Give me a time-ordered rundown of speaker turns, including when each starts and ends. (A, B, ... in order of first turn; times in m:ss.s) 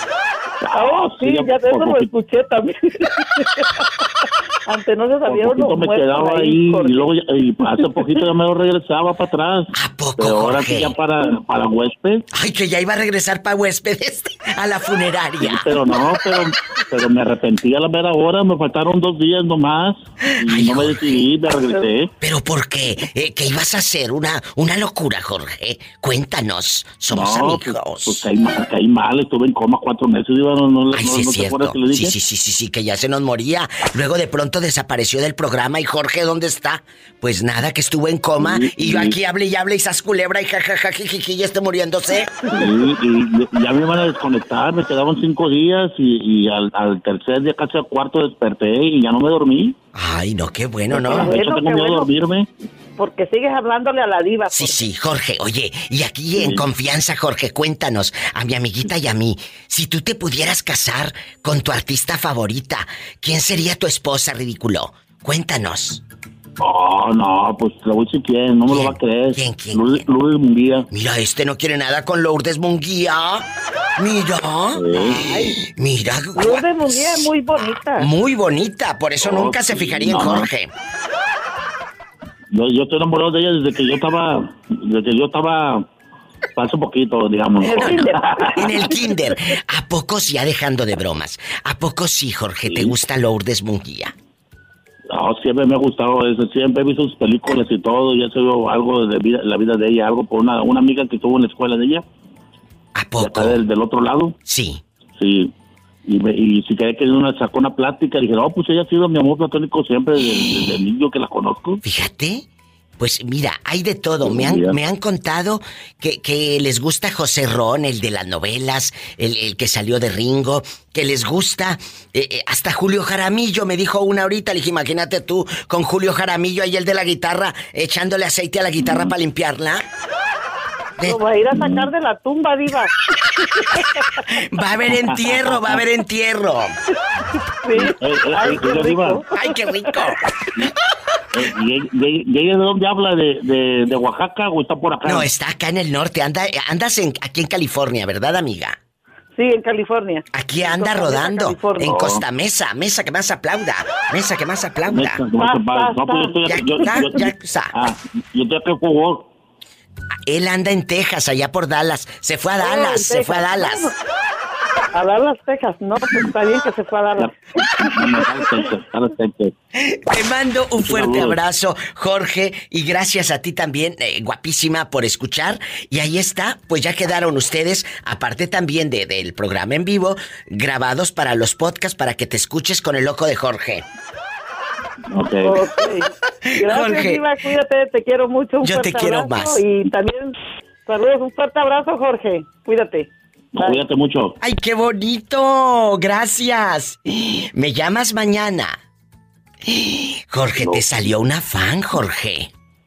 0:00.6-0:02.1 A
0:00.7-0:03.9 B
0:04.6-0:07.1 B
0:05.2-0:12.2 A
0:07.6-0:08.2 B
0:09.7-0:10.9 C
0:12.3-0:15.7 C
0:15.4-0:22.1 A
0:20.4-0:21.2 C
0:22.2-0:28.2 C
0:27.1-0:32.1 A
0:30.9-0:42.3 C
0:38.4-0:39.2 A
0:42.5-0:49.8 A
0:49.9-0:51.3 C
0:50.9-0:52.5 A
0:51.0-0:52.1 B
0:53.0-0:54.8 B
0:54.5-1:06.0 C
0:56.4-0:56.6 A
1:06.6-1:10.9 A
1:08.7-1:10.1 C
1:10.9-1:17.2 C
1:14.8-1:15.2 A
1:15.1-1:15.6 B
1:16.3-1:18.1 B
1:17.7-1:20.7 C
1:19.2-1:20.5 A
1:22.5-1:25.9 A
1:26.5-1:28.8 A
1:27.6-1:29.3 B
1:28.6-1:34.1 C
1:32.6-1:33.0 A
1:35.1-1:42.0 A
1:42.9-1:43.6 C
1:43.2-1:44.4 A
1:44.4-1:44.8 C
1:45.2-1:45.5 A
1:46.0-1:51.8 A
1:51.8-1:52.5 C
1:53.0-2:09.8 C
1:54.2-1:54.8 A
2:11.0-2:12.9 B
2:11.5-2:11.9 A
2:13.6-2:13.8 B
2:14.3-2:16.8 C
2:14.9-2:15.8 A
2:17.6-2:20.2 B
2:17.7-2:19.2 A
2:19.3-2:20.2 C
2:21.3-2:25.3 A
2:25.0-2:28.8 C
2:29.3-2:32.0 B
2:30.3-2:35.2 C
2:31.8-2:32.2 A
2:34.9-2:39.3 A
2:35.3-2:37.0 B
2:36.5-2:37.7 C
2:40.2-2:43.9 C
2:42.6-2:43.9 B
2:44.9-2:48.6 B
2:47.2-2:49.5 A
2:49.8-3:03.8 C
2:50.8-2:51.4 A
3:05.1-3:05.6 A
3:05.4-3:13.1 B
3:06.6-3:07.2 C
3:08.6-3:09.6 C
3:13.6-3:14.4 A
3:13.6-3:13.8 B
3:14.4-3:18.8 C
3:19.7-3:22.5 C
3:20.6-3:20.9 A